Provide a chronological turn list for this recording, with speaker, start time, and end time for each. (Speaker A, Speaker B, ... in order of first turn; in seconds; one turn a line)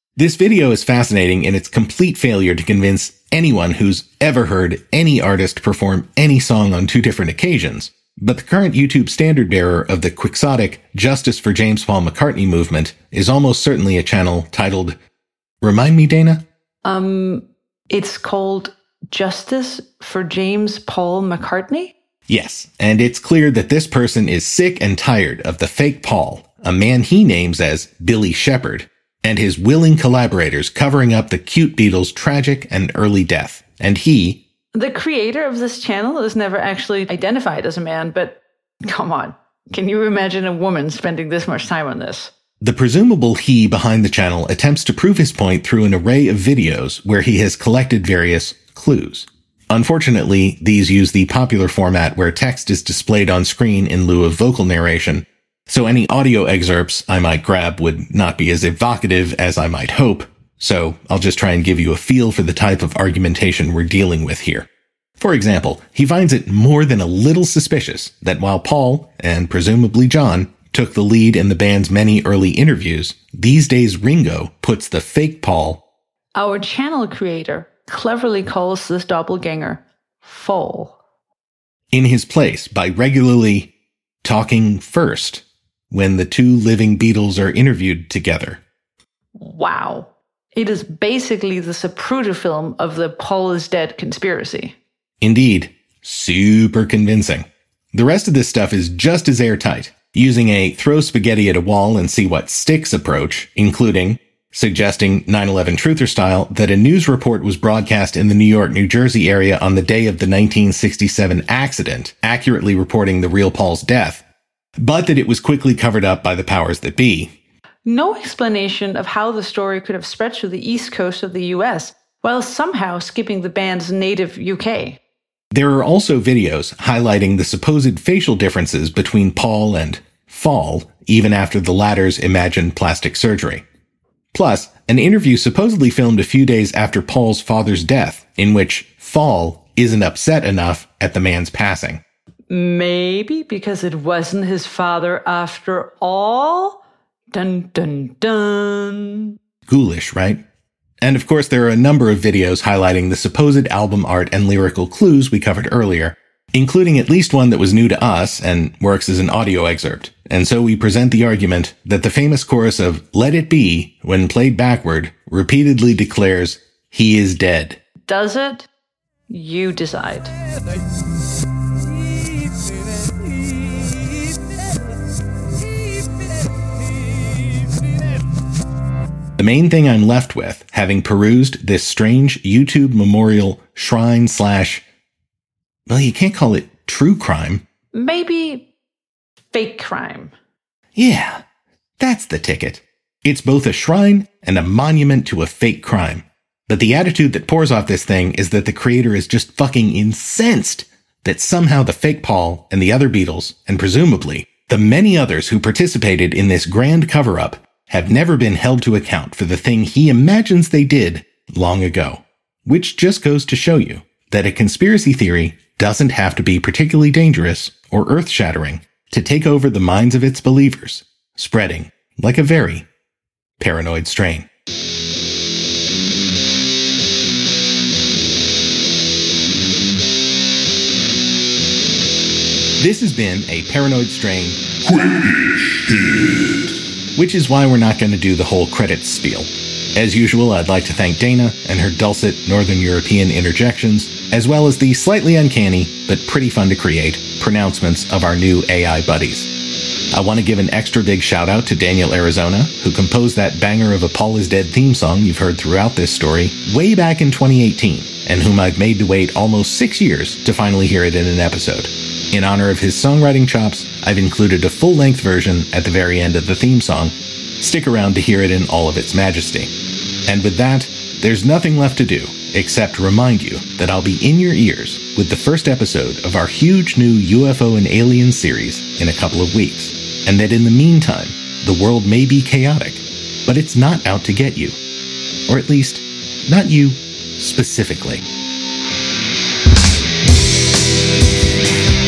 Speaker A: 0.2-15.0
Speaker A: 15.6-16.5
Speaker B: 16.9-21.9
Speaker A: 22.3-34.4
Speaker B: 34.7-42.3
Speaker A: 42.6-75.8
Speaker B: 76.3-81.0
Speaker A: 81.9-88.6
Speaker B: 89.4-94.8
Speaker A: 95.2-114.3
Speaker A: 114.8-117.4
Speaker B: 117.8-125.0
Speaker A: 125.5-133.7
Speaker A: 134.3-142.0
Speaker B: 142.5-149.4
Speaker A: 149.7-150.4
Speaker A: 151.0-167.8
Speaker B: 168.1-168.7
Speaker B: 169.3-170.3
Speaker A: 179.4-184.8
Speaker A: 185.9-187.6
Speaker B: 187.9-188.7
Speaker B: 189.5-190.3
Speaker A: 190.9-191.4
Speaker A: 192.0-222.9
Speaker A: 223.6-224.5
Speaker A: 232.8-234.7
Speaker A: 237.2-249.5
Speaker A: 250.1-269.7
Speaker A: 270.3-284.8
Speaker A: 285.5-288.2